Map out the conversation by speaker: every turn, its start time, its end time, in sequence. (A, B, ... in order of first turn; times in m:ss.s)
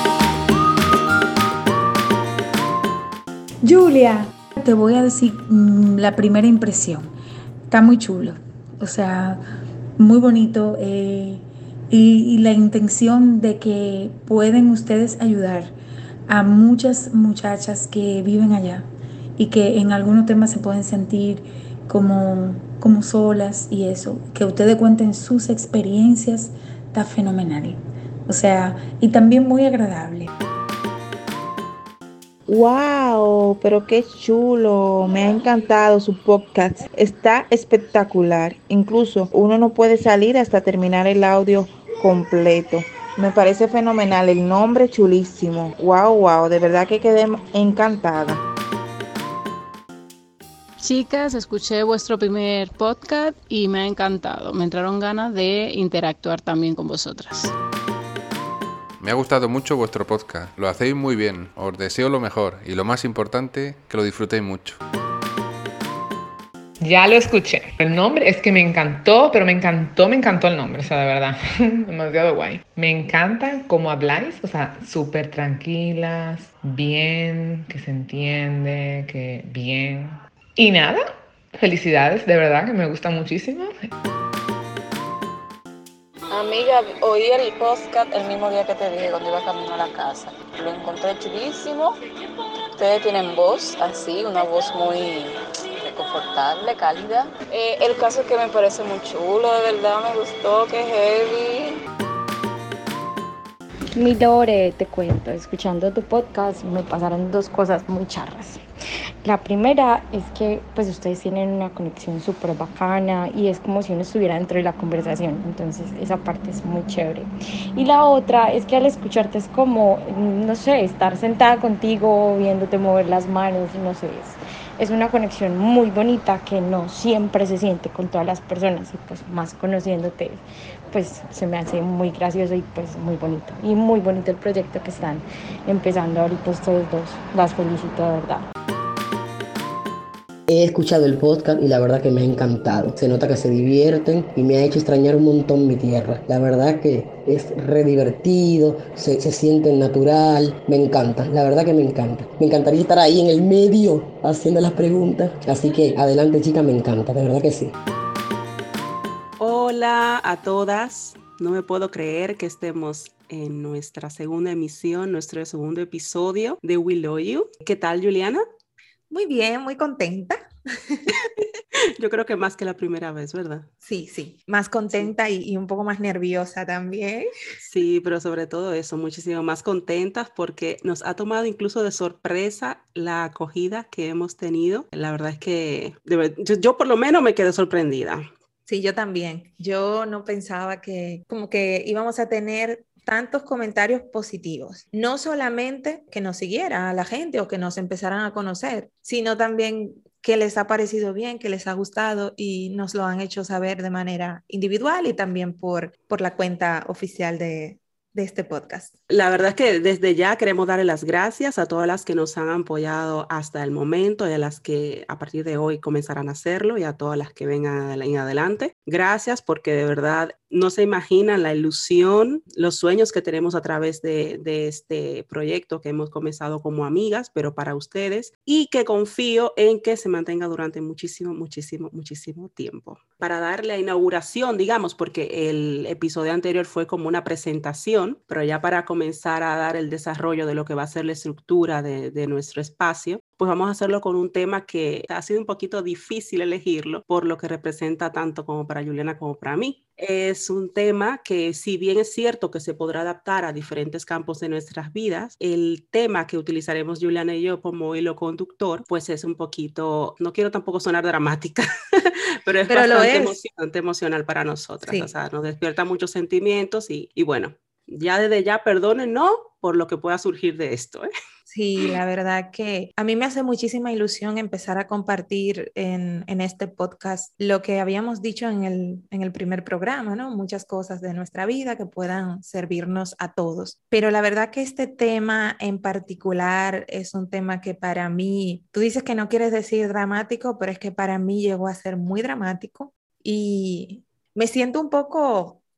0:03.6-0:07.1 A
0:07.7-0:09.4 A
0:10.0-0:15.7 A
0:16.3-0:18.9 A
0:19.4-0:30.3 A
0:32.5-0:48.4 B
0:50.8-0:57.5 C
0:59.0-1:04.8 D
1:06.8-1:23.8 E
1:26.3-1:32.0 F
1:32.7-1:41.8 F
1:44.0-1:48.6 G
1:49.2-2:18.4 G
2:20.5-2:37.7 H
2:39.4-2:48.4 I
2:49.1-2:51.2 J
2:51.1-2:53.7 I
2:53.8-2:57.3 J
2:57.6-3:08.2 I
3:08.7-3:28.9 J
3:29.1-4:31.1 I
4:22.7-4:23.4 J
4:24.8-4:25.1 J
4:31.5-4:55.6 J